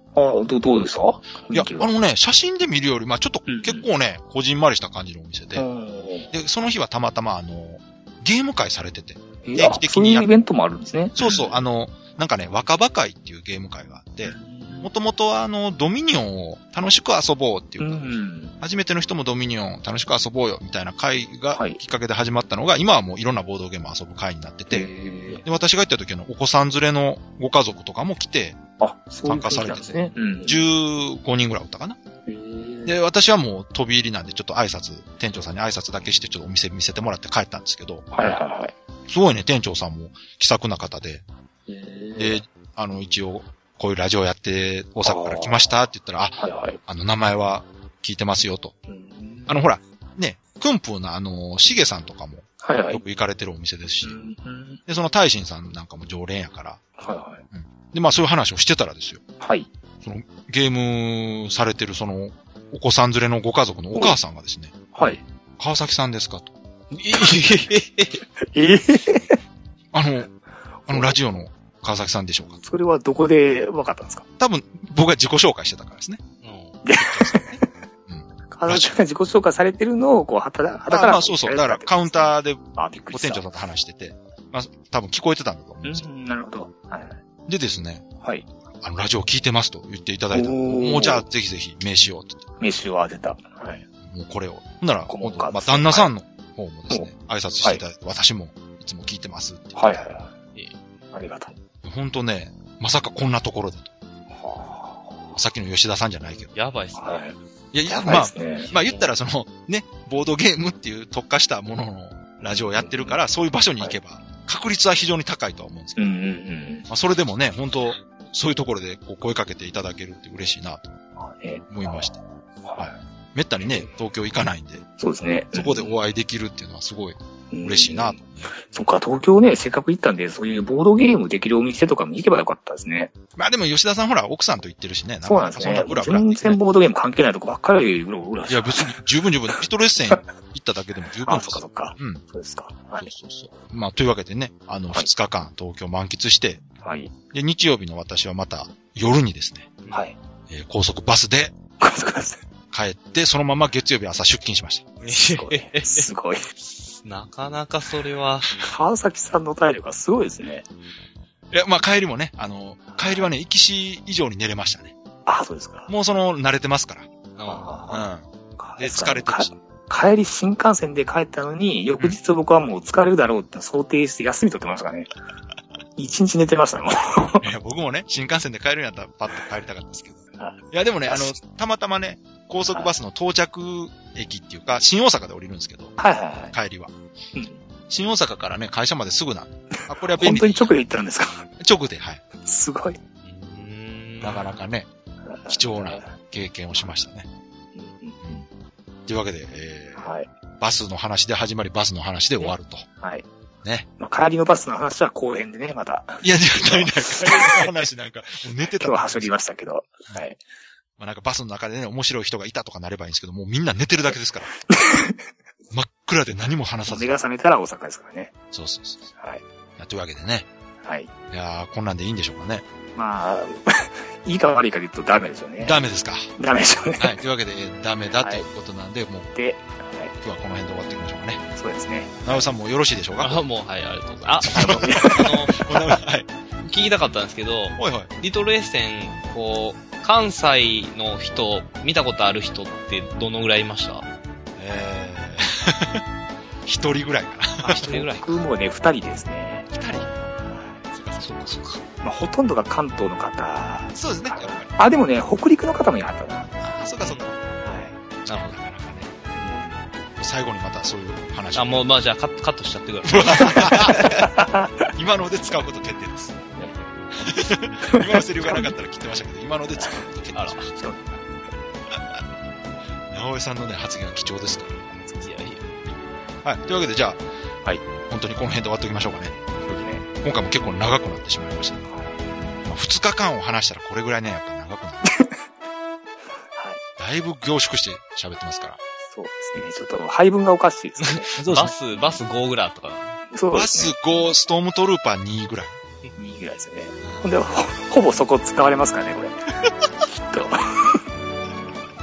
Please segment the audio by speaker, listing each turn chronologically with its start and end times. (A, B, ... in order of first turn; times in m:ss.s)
0:00.1-0:01.9 A
0:01.5-0:05.6 B
0:03.5-0:03.9 A
0:05.5-0:06.3 A
0:06.3-0:10.3 B
0:09.4-0:11.6 A
0:11.2-0:24.9 B
0:14.2-0:14.9 A
0:17.8-0:18.5 A
0:21.5-0:21.8 A
0:24.7-0:25.4 A
0:25.4-0:28.6 B
0:28.8-0:30.6 A
0:29.2-0:32.0 B
0:32.3-0:33.0 A
0:32.8-0:38.1 B
0:38.1-0:38.7 A
0:39.1-0:41.2 B
0:41.7-0:42.4 A
0:42.2-0:48.7 B
0:45.0-0:45.7 A
0:46.4-0:46.8 A
0:48.9-0:49.6 A
0:49.5-0:54.2 B
0:52.6-0:53.0 A
0:54.0-0:54.8 A
0:54.9-0:56.8 B
0:57.0-0:57.4 A
0:57.5-0:59.2 B
0:59.4-0:59.7 A
1:00.0-1:06.5 B
1:04.9-1:05.2 A
1:06.9-1:08.2 C
1:08.4-1:09.4 A
1:09.9-1:10.3 B
1:10.8-1:11.2 A
1:10.9-1:12.6 B
1:12.6-1:14.2 A
1:14.4-1:16.2 B
1:16.4-1:16.8 C
1:16.8-1:17.8 A
1:17.0-1:18.9 B
1:18.5-1:23.4 A
1:20.9-1:26.0 B
1:25.8-1:27.2 A
1:27.5-1:28.0 B
1:28.2-1:28.4 A
1:28.8-1:32.4 B
1:30.3-1:31.2 A
1:32.6-1:33.8 A
1:34.0-1:39.9 B
1:35.1-1:36.1 A
1:39.8-1:40.3 A
1:41.1-1:41.5 A
1:41.8-1:43.9 B
1:44.3-1:45.4 A
1:45.3-1:46.5 B
1:46.5-1:47.2 C
1:47.0-1:47.3 A
1:47.7-1:56.1 B
1:47.9-1:49.0 A
1:52.8-1:53.2 A
1:56.0-1:56.8 A
1:56.9-2:00.8 B
2:01.2-2:02.1 A
2:01.7-2:02.2 B
2:02.6-2:03.0 A
2:02.8-2:04.8 B
2:03.6-2:03.9 A
2:05.0-2:05.9 A
2:05.5-2:08.5 B
2:07.5-2:13.1 A
2:13.4-2:16.6 B
2:15.2-2:19.0 A
2:18.5-2:22.2 B
2:21.2-2:23.1 A
2:23.0-2:26.6 B
2:26.8-2:27.1 A
2:27.3-2:29.8 B
2:29.9-2:30.2 A
2:30.5-2:31.5 B
2:31.8-2:32.4 A
2:32.7-2:34.9 B
2:35.0-2:36.1 C
2:35.0-2:36.4 A
2:36.6-2:38.5 C
2:38.6-2:40.6 A
2:41.5-2:44.9 B
2:42.9-2:43.3 A
2:45.2-2:45.9 A
2:45.9-2:47.1 B
2:47.4-2:47.8 C
2:47.4-2:55.1 A
2:47.9-2:48.2 B
2:48.8-2:49.5 B
2:56.0-2:57.4 A
2:57.4-3:00.2 B
3:00.4-3:01.4 A
3:00.7-3:05.9 B
3:06.0-3:06.5 A
3:06.5-3:06.9 B
3:07.3-3:07.6 A
3:07.9-3:10.7 B
3:10.2-3:11.4 A
3:11.6-3:12.2 B
3:12.4-3:13.0 A
3:13.2-3:14.5 C
3:14.2-3:14.9 B
3:15.2-3:16.1 A
3:15.5-3:17.3 B
3:17.7-3:18.4 A
3:19.1-3:20.0 B
3:20.0-3:20.3 A
3:20.6-3:22.9 B
3:22.4-3:23.2 A
3:24.0-3:27.7 A
3:26.2-3:29.3 B
3:28.8-3:30.4 A
3:31.0-3:34.5 B
3:34.7-3:35.2 A
3:35.7-3:37.1 B
3:36.9-3:38.3 A
3:38.5-3:39.0 B
3:39.2-3:39.4 A
3:39.8-3:40.5 B
3:40.8-3:41.1 A
3:41.3-3:42.6 B
3:43.0-3:45.8 A
3:45.6-3:46.3 B
3:46.4-3:47.2 A
3:47.0-3:49.3 B
3:48.1-3:48.5 A
3:49.3-3:50.1 A
3:50.2-3:51.4 B
3:51.6-3:52.4 A
3:52.2-3:53.4 B
3:53.2-3:55.6 C
3:54.4-3:56.3 B
3:54.5-3:55.4 A
3:56.6-4:04.0 C
3:57.8-3:58.1 B
4:04.6-4:06.0 B
4:06.6-4:08.0 B
4:07.6-4:08.4 C
4:07.8-4:09.7 A
4:09.7-4:10.1 B
4:10.4-4:10.8 A
4:10.9-4:11.3 B
4:11.2-4:11.8 C
4:12.0-4:16.5 A
4:13.9-4:14.7 B
4:16.6-4:17.4 B
4:17.6-4:18.0 A
4:18.2-4:19.1 B
4:18.3-4:18.6 C
4:19.3-4:19.8 A
4:20.2-4:21.8 B
4:21.5-4:24.2 C
4:23.0-4:24.3 B
4:23.7-4:24.9 A
4:24.9-4:26.4 B
4:27.2-4:30.7 B
4:27.8-4:28.7 A
4:30.3-4:30.7 C
4:30.7-4:31.2 A
4:33.1-4:35.0 B
4:35.2-4:35.6 C
4:36.4-4:37.2 B
4:38.0-4:41.9 B
4:39.7-4:40.0 A
4:41.9-4:42.2 A
4:42.6-4:45.1 B
4:45.1-4:45.3 A
4:46.6-4:46.8 A
4:47.0-4:48.8 B
4:49.1-4:51.3 A
4:51.0-4:53.2 C
4:51.4-4:51.8 B
4:53.3-4:54.0 A
4:53.5-4:55.8 B
4:56.2-4:59.3 A
4:57.0-4:57.4 B
5:00.1-5:01.0 A